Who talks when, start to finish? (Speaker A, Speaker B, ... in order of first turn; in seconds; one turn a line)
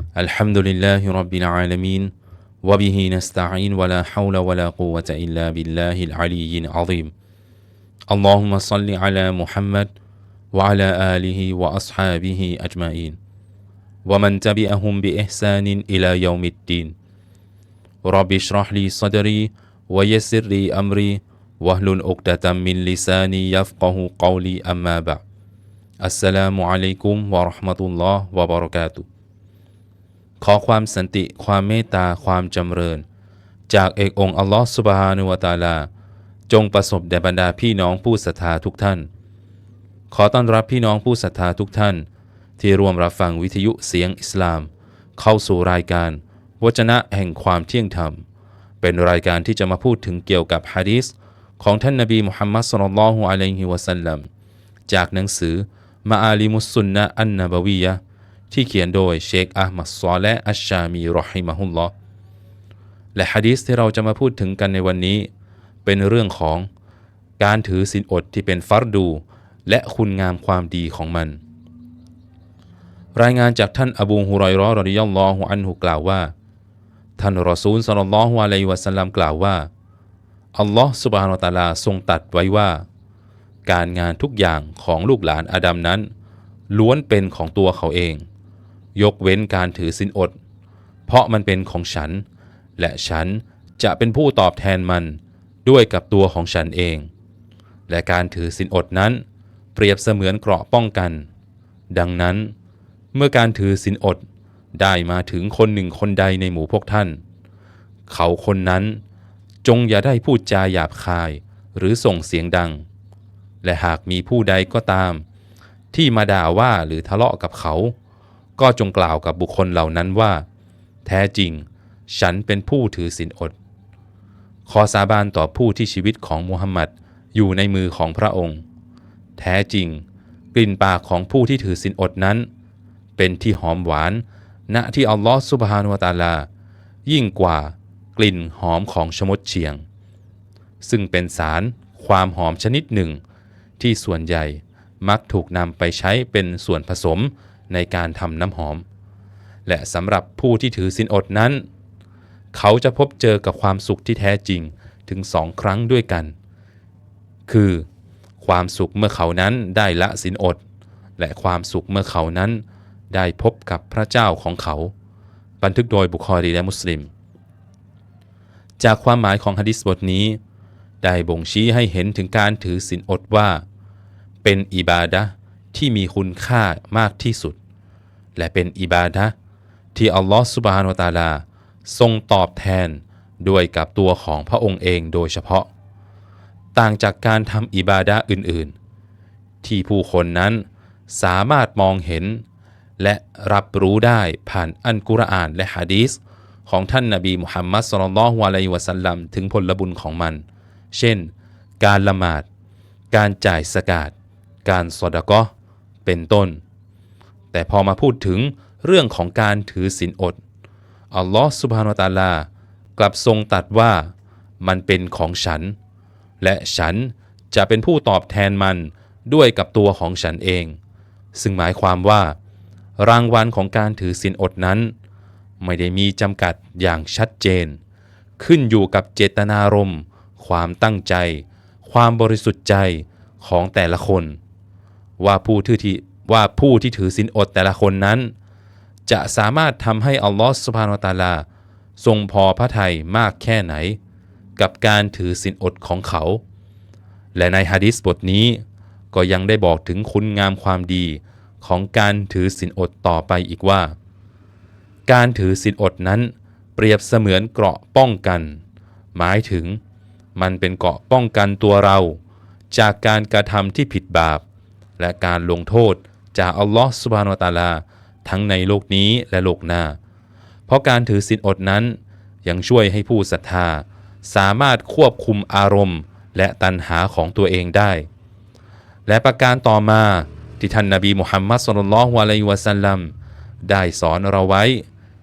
Speaker A: 0.2-7.1
Speaker A: 8.1-9.9
Speaker A: 10.5-13.2
Speaker A: 14.1-16.9
Speaker A: 18.1-25.2
Speaker A: 26.0-29.1
Speaker A: 30.4-33.0
Speaker A: 33.7-35.9
Speaker A: 36.5-39.1
Speaker A: 40.1-42.1
Speaker A: 42.6-48.2
Speaker A: 48.8-54.3
Speaker A: 54.9-58.0
Speaker A: 58.5-61.9
Speaker A: 63.1-65.3
Speaker A: 65.8-66.7
Speaker A: 67.4-71.4
Speaker A: 73.2-76.3
Speaker A: 77.2-79.7
Speaker A: 80.5-82.8
Speaker A: 83.7-86.1
Speaker A: 86.7-88.2
Speaker A: 89.0-90.3
Speaker A: 91.1-92.2
Speaker A: 92.8-97.1
Speaker A: 97.9-99.2
Speaker A: 99.8-101.3
Speaker A: 101.9-102.5
Speaker A: 103.1-104.2
Speaker A: 104.8-107.2
Speaker A: 108.1-109.0
Speaker A: 109.6-112.8
Speaker A: 113.6-115.2
Speaker A: 115.9-117.9
Speaker A: 118.6-120.5
Speaker A: 121.0-123.6
Speaker A: 124.7-128.6
Speaker A: 129.4-130.0
Speaker A: 130.5-132.5
Speaker A: 133.2-136.5
Speaker A: 137.1-139.8
Speaker A: 140.8-143.2
Speaker A: 143.8-148.8
Speaker A: 149.7-151.7
Speaker A: 152.5-156.3
Speaker A: 157.5-157.9
Speaker A: 158.4-160.6
Speaker A: 161.2-164.9
Speaker A: 165.6-167.1
Speaker A: 168.8-170.4
Speaker A: 171.0-173.6
Speaker A: 174.4-177.6
Speaker A: 178.4-179.3
Speaker A: 179.9-185.7
Speaker A: 186.7-188.7
Speaker A: 189.6-192.4
Speaker A: 193.0-202.5
Speaker A: 203.1-204.1
Speaker A: 204.7-205.5
Speaker A: 206.1-206.6
Speaker A: 207.5-210.4
Speaker A: 211.1-215.8
Speaker A: 216.4-220.8
Speaker A: 221.3-222.4
Speaker A: 223.0-224.9
Speaker A: 225.6-227.8
Speaker A: 228.4-234.4
Speaker A: 235.2-238.3
Speaker A: 239.1-241.4
Speaker A: 242.0-244.0
Speaker A: 244.6-246.4
Speaker A: 247.3-253.9
Speaker A: 255.1-258.6
Speaker A: 259.1-259.8
Speaker A: 260.4-262.2
Speaker A: 262.7-264.4
Speaker A: 265.0-270.0
Speaker A: 270.7-278.1
Speaker A: 279.1-283.1
Speaker A: 283.6-284.9